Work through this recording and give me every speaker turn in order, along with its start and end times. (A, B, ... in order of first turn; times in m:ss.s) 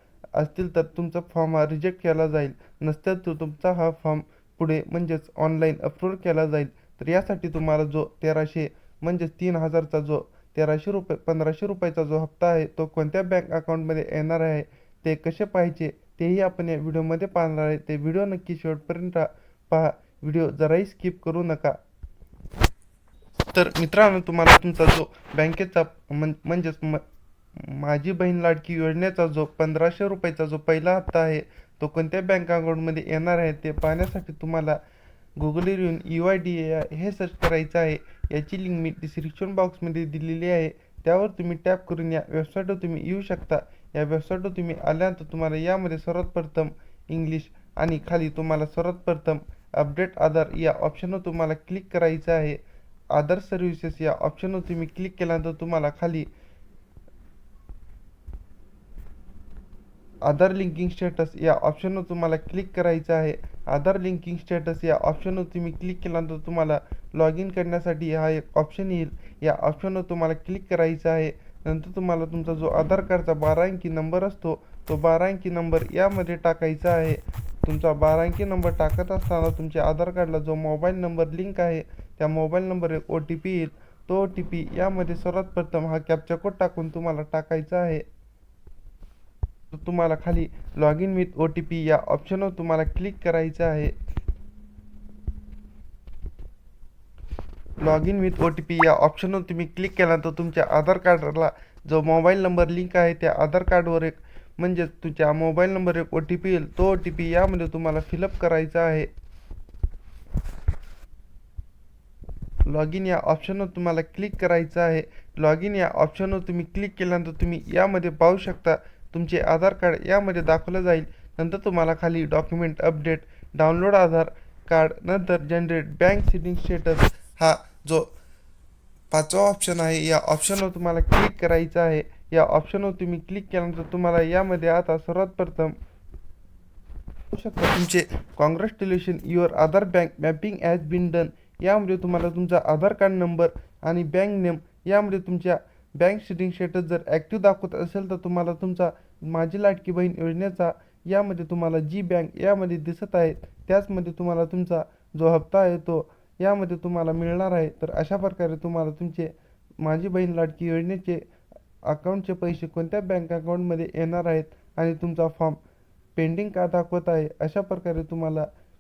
0:00.4-0:21.8 A
0:23.5-0:27.0 A
0:27.6-0:34.8 A
0:35.4-0:52.6 A
0:53.1-0:56.3 A
1:00.2-1:28.0 A
1:29.7-1:33.9 A
1:37.8-1:49.1 A
1:52.7-2:08.1 A
2:09.1-2:15.8 A
2:17.3-2:41.3 A
2:41.9-2:45.6 A
2:46.2-2:48.5 A